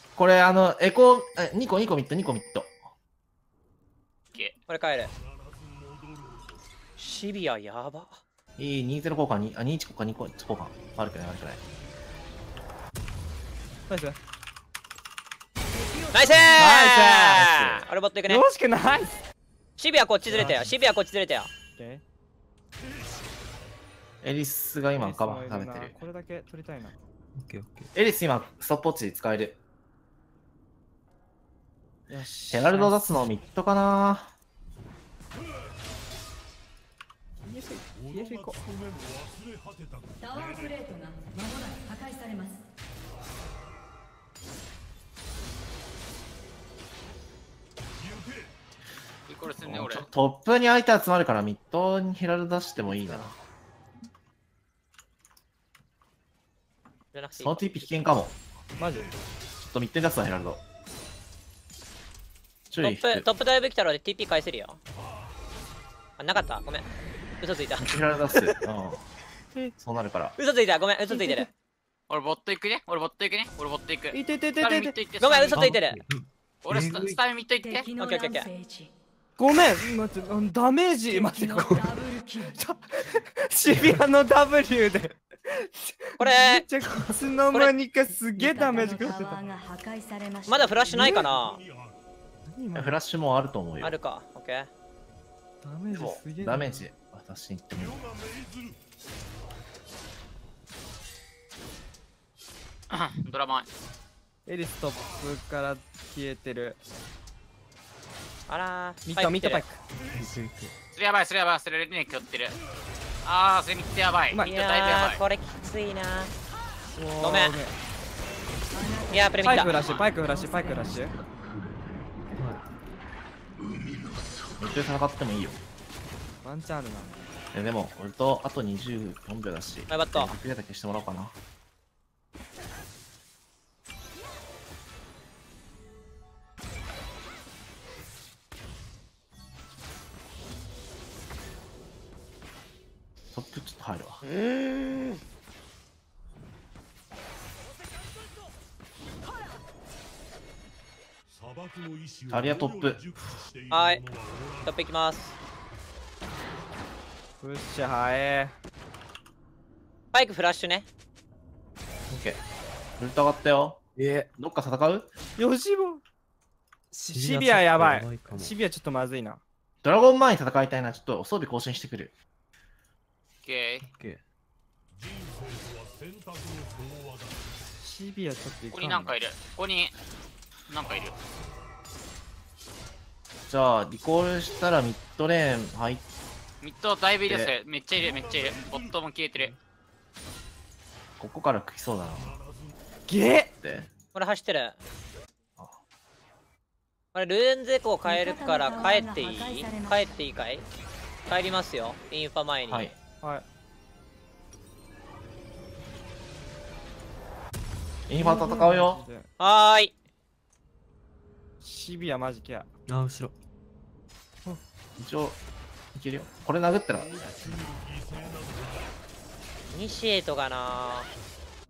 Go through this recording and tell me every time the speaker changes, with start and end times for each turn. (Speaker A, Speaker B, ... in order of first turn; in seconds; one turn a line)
Speaker A: 0.2-2.8
Speaker B: 4.7-5.1
Speaker C: 5.1-6.6
Speaker B: 7.0-8.2
Speaker A: 8.6-11.6
Speaker D: 13.9-14.2
Speaker E: 15.7-16.6
Speaker B: 16.1-18.4
Speaker D: 16.6-17.5
Speaker A: 17.4-17.9
Speaker D: 18.3-19.2
Speaker B: 19.8-21.5
Speaker D: 21.8-22.0
Speaker A: 24.2-26.0
Speaker D: 25.0-26.9
Speaker F: 27.4-27.9
Speaker A: 27.9-29.6
Speaker D: 32.1-33.2
Speaker A: 32.5-34.3
Speaker D: 37.5-38.6
Speaker C: 37.9-40.9
Speaker E: 40.2-42.6
Speaker C: 48.0-48.5
Speaker G: 49.3-50.1
Speaker A: 49.6-53.4
Speaker B: 57.1-57.9
Speaker A: 57.4-58.4
Speaker C: 58.8-59.2
Speaker D: 58.8-59.1
Speaker A: 59.6-60.6
Speaker A: 62.7-63.3
Speaker B: 62.8-64.8
Speaker B: 66.2-66.9
Speaker B: 67.4-68.5
Speaker A: 67.8-69.0
Speaker A: 69.8-70.3
Speaker B: 70.4-71.5
Speaker D: 71.1-71.5
Speaker G: 72.1-75.7
Speaker D: 74.1-74.9
Speaker B: 75.2-76.0
Speaker F: 75.5-77.2
Speaker G: 76.6-77.9
Speaker E: 77.6-78.9
Speaker B: 78.0-78.5
Speaker D: 79.4-81.8
Speaker E: 81.1-82.6
Speaker D: 82.5-89.4
Speaker F: 83.7-84.0
Speaker B: 86.2-86.7
Speaker E: 88.3-91.2
Speaker B: 90.5-91.6
Speaker D: 90.9-91.3
Speaker C: 91.1-92.0
Speaker D: 92.5-93.0
Speaker A: 92.7-94.0
Speaker B: 93.8-94.7
Speaker D: 95.6-96.9
Speaker A: 95.9-98.0
Speaker C: 97.8-98.8
Speaker G: 102.9-103.7
Speaker D: 104.5-106.8
Speaker B: 108.5-109.6
Speaker D: 109.1-109.8
Speaker C: 110.0-110.4
Speaker F: 110.1-110.8
Speaker G: 111.0-112.6
Speaker G: 113.2-115.2
Speaker B: 114.5-116.3
Speaker D: 117.0-117.8
Speaker B: 117.2-117.6
Speaker E: 118.7-121.1
Speaker B: 119.1-119.8
Speaker D: 119.4-121.2
Speaker G: 119.5-120.0
Speaker F: 122.4-122.6
Speaker A: 124.6-125.6
Speaker D: 126.4-127.2
Speaker A: 127.5-131.3
Speaker B: 129.9-130.4
Speaker A: 143.3-144.2
Speaker B: 144.2-145.2
Speaker C: 151.3-154.8
Speaker A: 152.3-153.0
Speaker B: 153.7-154.0
Speaker B: 154.7-155.3
Speaker D: 157.4-158.6
Speaker B: 160.1-160.9
Speaker A: 162.1-162.4
Speaker A: 163.0-165.1
Speaker D: 165.4-166.0
Speaker F: 166.9-168.6
Speaker D: 167.0-169.4
Speaker A: 169.8-172.1
Speaker G: 173.4-173.9
Speaker F: 173.8-174.2
Speaker C: 174.9-177.6
Speaker D: 177.8-179.2
Speaker G: 178.7-180.0
Speaker G: 180.7-181.2
Speaker A: 183.5-186.0
Speaker G: 186.6-189.5
Speaker A: 187.3-187.6
Speaker C: 187.9-189.0
Speaker A: 191.2-192.4
Speaker C: 192.1-192.7
Speaker D: 193.1-193.5
Speaker A: 193.6-193.9
Speaker B: 194.1-194.8
Speaker B: 197.1-200.7
Speaker E: 198.1-200.2
Speaker B: 201.3-202.9
Speaker A: 202.7-203.0
Speaker A: 208.1-209.0
Speaker D: 208.2-209.3
Speaker B: 209.4-209.9
Speaker D: 211.6-212.7
Speaker F: 212.9-213.3
Speaker A: 215.0-215.4
Speaker A: 215.9-217.1
Speaker C: 216.9-219.0
Speaker B: 219.7-221.1